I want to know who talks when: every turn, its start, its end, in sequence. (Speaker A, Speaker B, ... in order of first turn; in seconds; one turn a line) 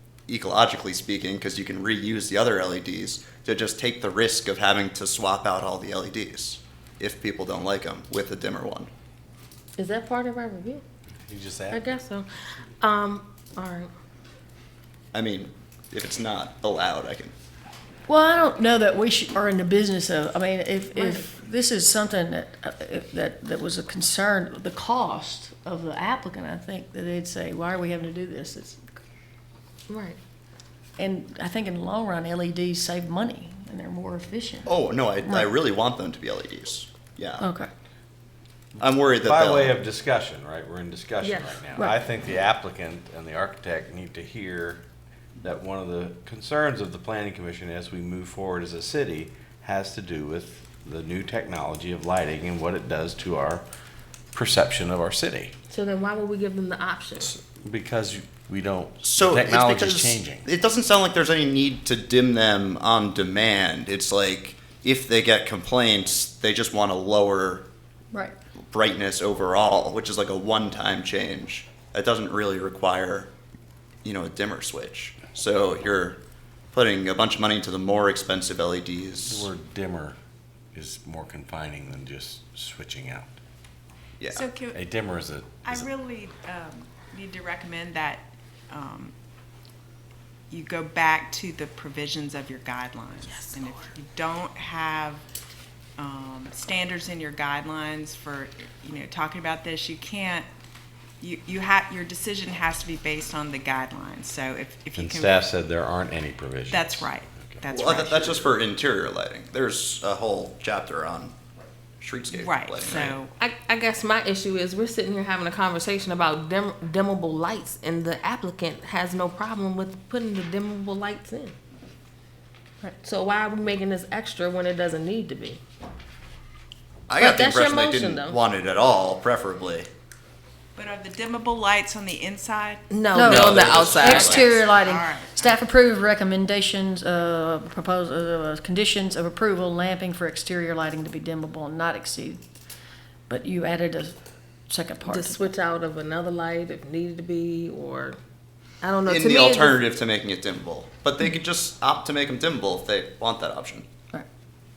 Speaker A: 0.3-8.9
Speaker B: 9.8-10.8
Speaker C: 11.2-12.0
Speaker B: 11.7-13.9
Speaker A: 15.1-17.3
Speaker D: 18.1-28.8
Speaker B: 20.9-21.2
Speaker B: 29.9-30.2
Speaker D: 31.0-35.5
Speaker A: 34.6-37.5
Speaker D: 37.4-37.7
Speaker A: 38.8-39.8
Speaker C: 39.2-44.8
Speaker B: 41.2-41.6
Speaker C: 45.4-53.6
Speaker C: 54.3-55.5
Speaker B: 55.7-57.3
Speaker C: 57.2-60.5
Speaker A: 59.0-67.6
Speaker A: 68.7-73.3
Speaker A: 74.0-76.2
Speaker A: 76.7-79.5
Speaker C: 79.2-80.2
Speaker C: 80.7-83.3
Speaker A: 84.2-84.5
Speaker E: 84.2-84.8
Speaker C: 84.7-85.9
Speaker E: 85.6-89.1
Speaker E: 90.5-95.2
Speaker B: 93.2-93.6
Speaker E: 96.0-100.5
Speaker E: 101.2-105.5
Speaker C: 105.0-107.6
Speaker E: 106.7-108.6
Speaker A: 107.7-111.3
Speaker A: 112.0-113.2
Speaker E: 112.3-113.4
Speaker B: 113.4-121.5
Speaker B: 123.0-125.6
Speaker A: 127.1-129.9
Speaker B: 127.2-128.4
Speaker E: 130.8-135.6
Speaker B: 132.9-134.4
Speaker A: 133.1-134.4
Speaker D: 133.1-142.4
Speaker D: 143.3-144.2
Speaker D: 144.7-145.4
Speaker B: 145.0-148.2
Speaker B: 148.8-149.8
Speaker A: 149.1-153.8